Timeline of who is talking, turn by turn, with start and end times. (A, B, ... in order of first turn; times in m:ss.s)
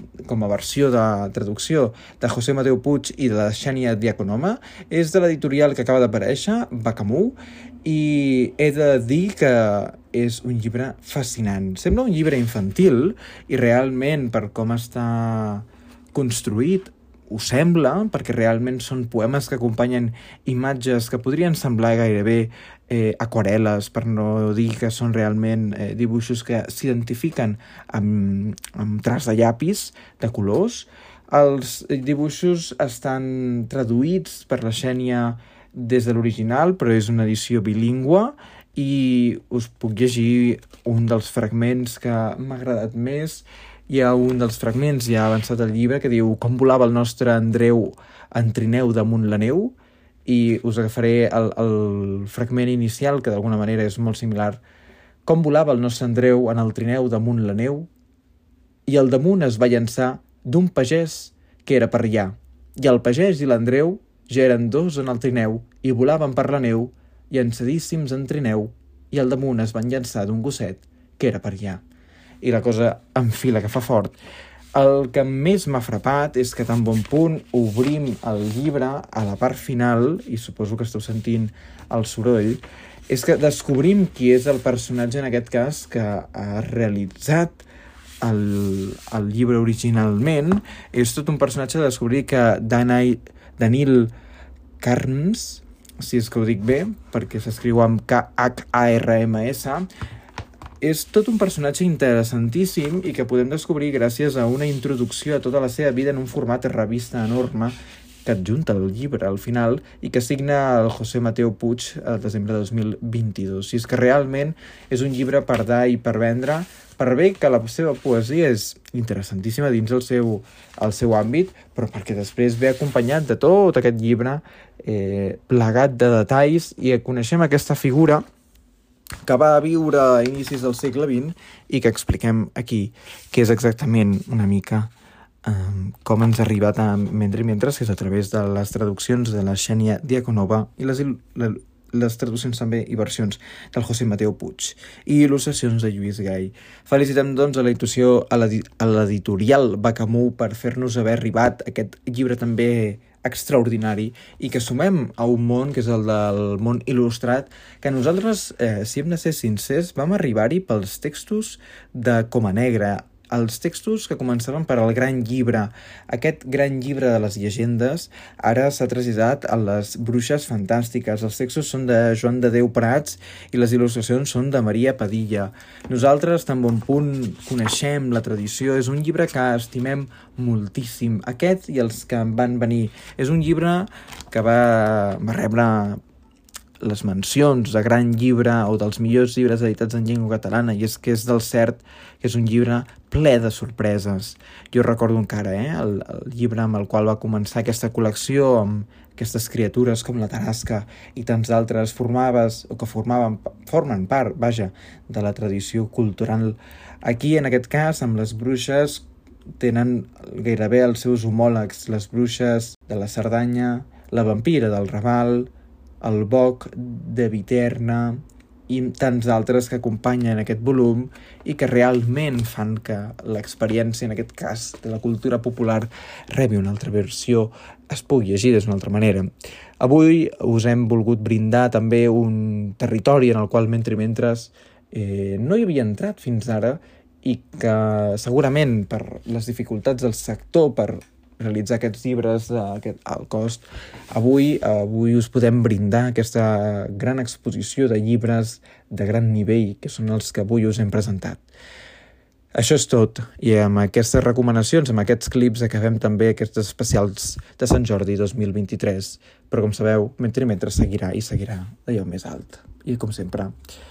0:00.2-0:49.7 A
0:50.2-0:54.6 A
0:55.2-0:57.9 A
0:58.9-1:11.8 A
1:12.4-1:14.2 A
1:14.7-1:27.6 A
1:28.2-1:34.1 A
1:34.8-1:39.9 A
1:40.8-2:08.2 A
2:09.2-2:14.9 A
2:15.4-3:06.0 A
3:06.8-3:29.0 A
3:29.6-3:35.5 A
3:36.0-4:11.4 A
4:12.5-4:23.5 A